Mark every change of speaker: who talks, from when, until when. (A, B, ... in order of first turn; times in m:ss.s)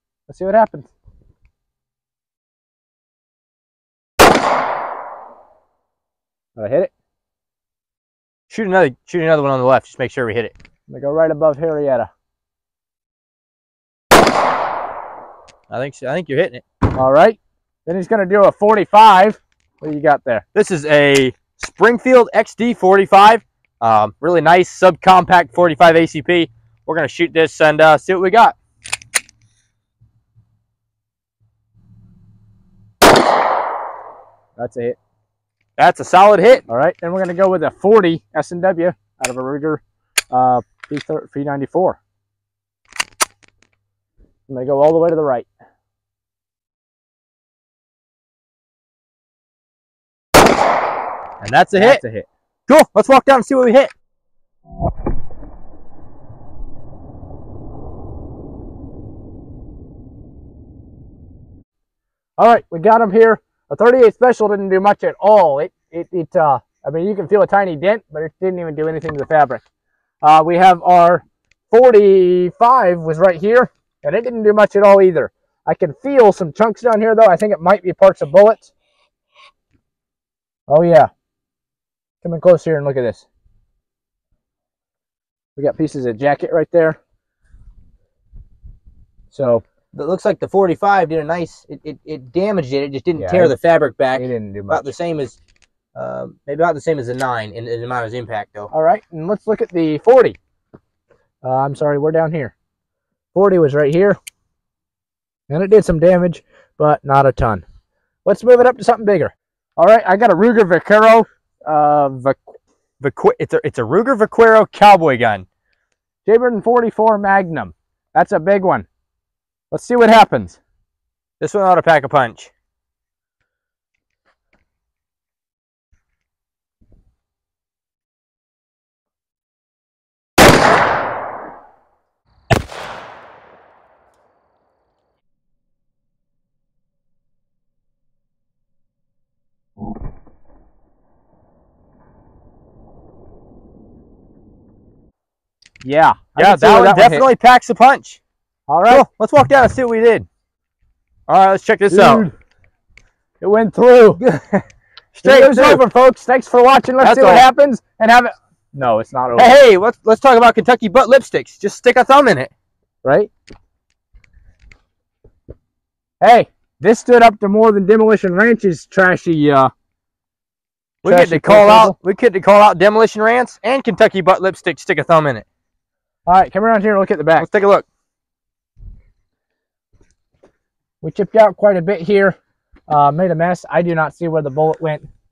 0:00.3-0:00.9 A
0:06.6-0:06.9 A
0:08.5-0:10.5 B
0:10.9-0:12.1 A
0:15.7-0:16.6 B
0:16.9-0:20.4 A
0:20.5-0:28.6 B
0:34.6-0:35.0 A
0:35.8-0:36.6 B
0:36.7-0:42.0 A
0:44.5-0:45.5 A
0:51.4-0:52.0 B
0:51.8-0:52.3 A
0:52.7-0:53.9 B
1:02.4-1:09.6 A
1:10.2-1:18.7 A
1:20.7-1:21.1 A
1:22.2-1:23.2 A
1:25.6-1:27.0 A
1:29.3-1:29.6 A
1:29.9-1:35.4 B
1:33.2-1:33.6 A
1:34.1-1:34.9 A
1:35.9-1:38.7 B
1:38.7-1:40.4 A
1:41.4-1:42.5 A
1:43.3-1:44.2 A
1:45.5-1:47.6 A
1:48.2-1:52.5 A
1:53.0-1:55.4 B
1:56.2-1:58.8 A
1:59.7-2:00.6 A
2:01.4-2:02.5 B
2:25.8-2:27.3 A
2:26.4-2:28.2 B
2:28.7-2:29.0 A
2:28.9-2:30.3 B
2:31.3-2:32.2 B
2:31.9-2:32.3 A
2:33.4-2:34.2 A
2:34.2-2:34.6 B
2:35.1-2:35.8 B
2:35.2-2:39.6 A
2:37.0-2:37.4 B
2:39.4-2:42.5 B
2:43.0-2:43.3 A
2:46.2-2:49.7 A
2:51.0-2:55.4 B
2:51.0-2:52.0 A
2:56.2-2:57.5 A
2:57.4-2:57.8 B
3:01.0-3:02.4 A
3:02.9-3:05.1 A